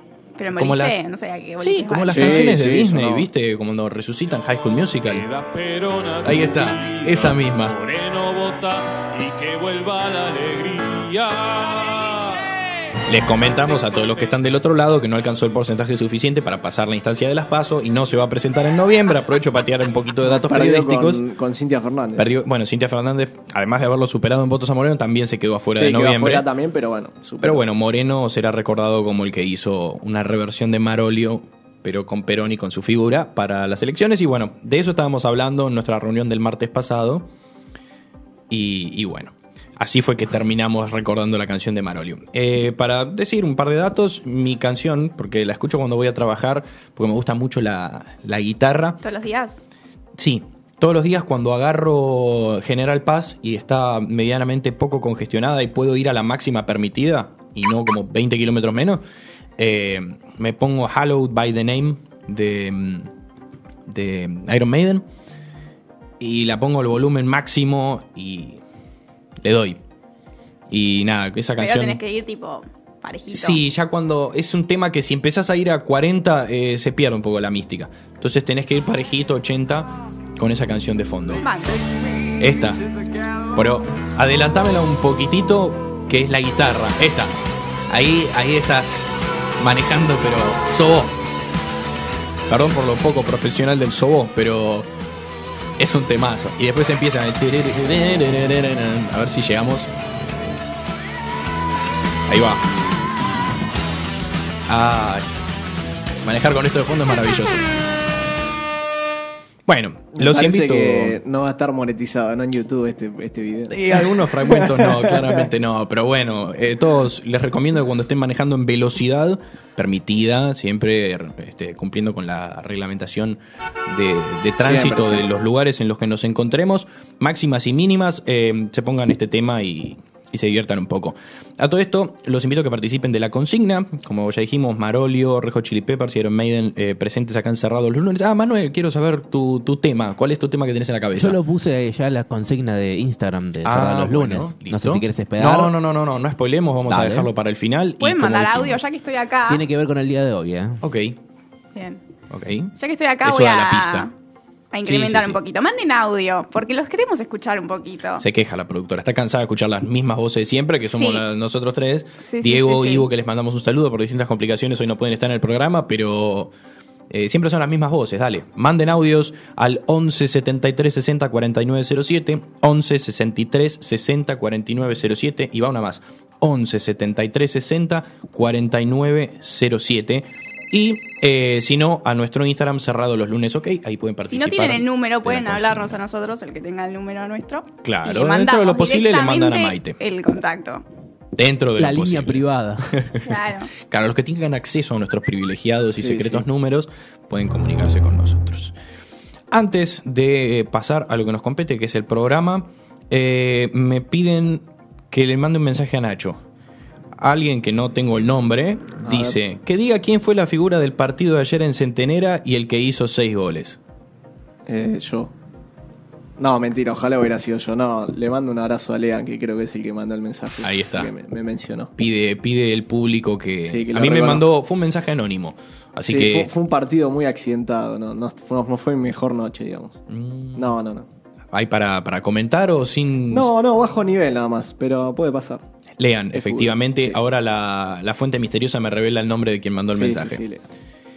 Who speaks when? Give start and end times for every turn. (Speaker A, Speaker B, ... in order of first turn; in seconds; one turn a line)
Speaker A: 0.4-2.5
Speaker B: 0.5-1.0
Speaker B: 1.6-5.3
Speaker C: 2.1-3.3
Speaker D: 5.0-12.4
Speaker B: 6.2-7.8
Speaker B: 13.1-21.2
Speaker C: 20.2-22.3
Speaker B: 22.2-26.5
Speaker C: 25.8-27.6
Speaker B: 27.4-37.3
Speaker B: 38.5-49.0
Speaker A: 49.0-49.6
Speaker B: 50.2-59.0
Speaker B: 59.6-63.1
Speaker B: 63.9-65.1
Speaker B: 66.2-68.6
Speaker B: 69.4-69.8
Speaker B: 70.7-72.0
Speaker A: 71.6-73.6
Speaker B: 73.3-81.5
Speaker A: 81.4-81.8
Speaker B: 82.4-82.8
Speaker B: 83.5-87.4
Speaker B: 87.9-91.2
Speaker B: 92.5-94.9
Speaker B: 95.8-99.9
Speaker B: 102.3-102.7
Speaker B: 104.7-105.3
Speaker B: 106.2-107.7
Speaker B: 109.7-111.2
Speaker C: 110.2-115.5
Speaker B: 113.7-141.4
Speaker C: 124.6-125.2
Speaker E: 141.2-145.8
Speaker B: 143.6-148.8
Speaker E: 146.9-147.3
Speaker A: 148.0-149.6
Speaker E: 149.5-150.8
Speaker B: 150.8-151.2
Speaker A: 151.8-152.0
Speaker B: 152.3-152.7
Speaker A: 152.8-154.1
Speaker B: 153.2-154.1
Speaker A: 154.7-158.2
Speaker B: 154.8-155.4
Speaker B: 158.2-166.5
Speaker A: 160.9-161.2
Speaker A: 162.2-163.1
Speaker B: 167.1-186.0
Speaker A: 184.3-190.8
Speaker B: 187.8-190.0
Speaker B: 191.4-198.7
Speaker E: 191.8-192.9
Speaker A: 193.2-193.7
Speaker C: 195.9-196.5
Speaker B: 199.5-206.4
Speaker B: 207.2-213.8
Speaker C: 209.0-209.4
Speaker C: 214.7-215.3
Speaker C: 216.4-221.9
Speaker B: 220.6-221.1
Speaker B: 222.0-226.5
Speaker C: 223.7-224.4
Speaker C: 226.1-230.0
Speaker B: 230.1-230.8
Speaker C: 230.6-231.1
Speaker B: 231.5-233.5
Speaker C: 233.3-235.6
Speaker B: 236.0-240.4
Speaker C: 236.3-237.2
Speaker C: 239.9-240.6